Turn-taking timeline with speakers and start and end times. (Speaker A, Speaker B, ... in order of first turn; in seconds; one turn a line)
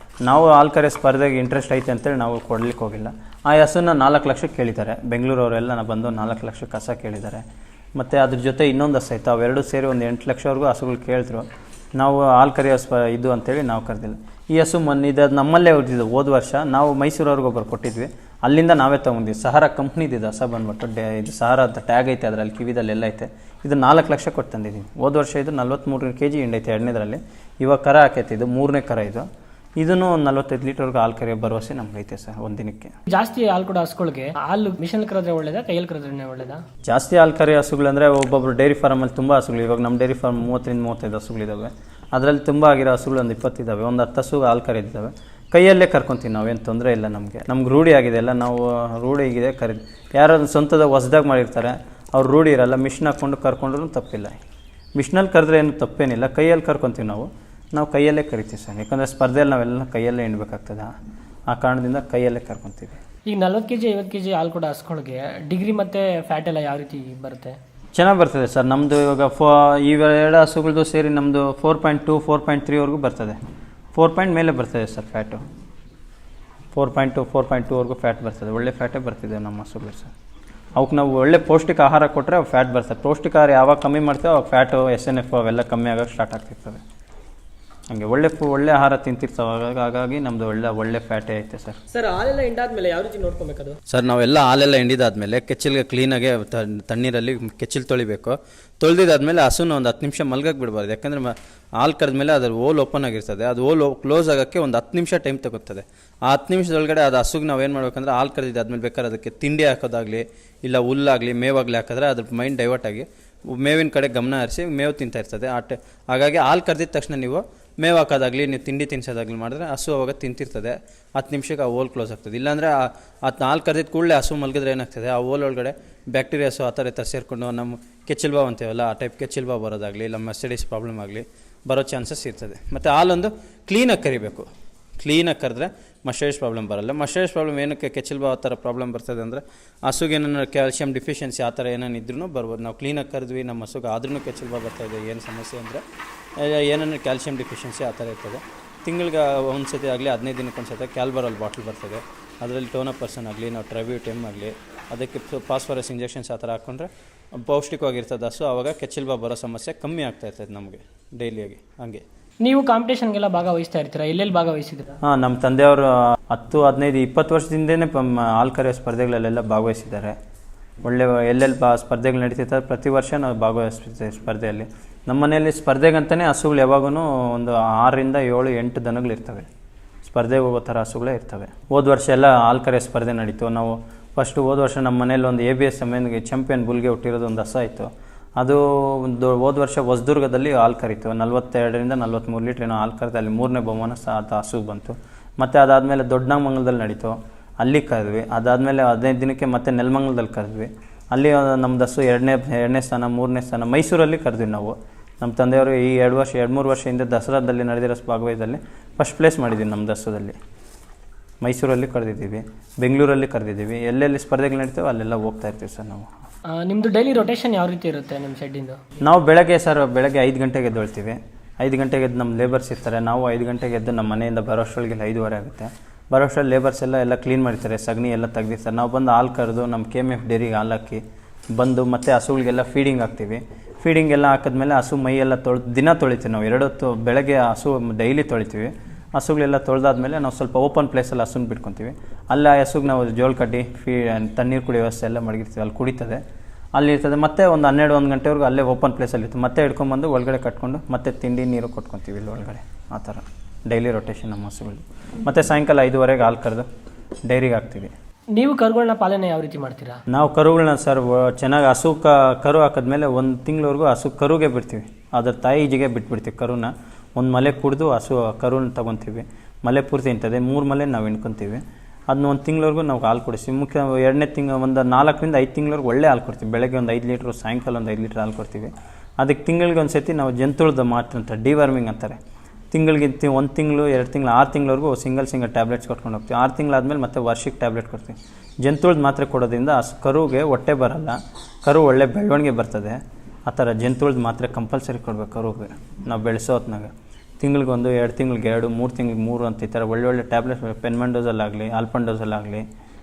Speaker A: 0.2-7.4
Speaker A: 8.0-11.4
Speaker A: 12.0-29.2
Speaker A: 29.8-32.9
Speaker B: 33.1-36.6
Speaker A: 36.9-54.4
Speaker A: 55.0-60.9
Speaker A: 61.5-63.0
Speaker B: 63.3-67.6
Speaker A: 67.9-73.4
Speaker A: 73.9-75.4
Speaker A: 76.7-80.1
Speaker A: 80.8-86.8
Speaker A: 87.9-91.8
Speaker B: 91.9-93.8
Speaker A: 93.9-134.5
Speaker A: 135.0-145.8
Speaker A: 146.4-162.0
Speaker B: 162.4-165.0
Speaker A: 165.0-170.1
Speaker A: 170.8-179.5
Speaker A: 180.0-210.4
Speaker A: 211.4-216.1
Speaker B: 216.5-218.8
Speaker A: 219.0-231.0
Speaker A: 231.5-246.2
Speaker A: 246.7-256.7
Speaker A: 257.3-257.9
Speaker B: 258.3-260.0
Speaker A: 260.1-282.2
Speaker A: 282.7-302.6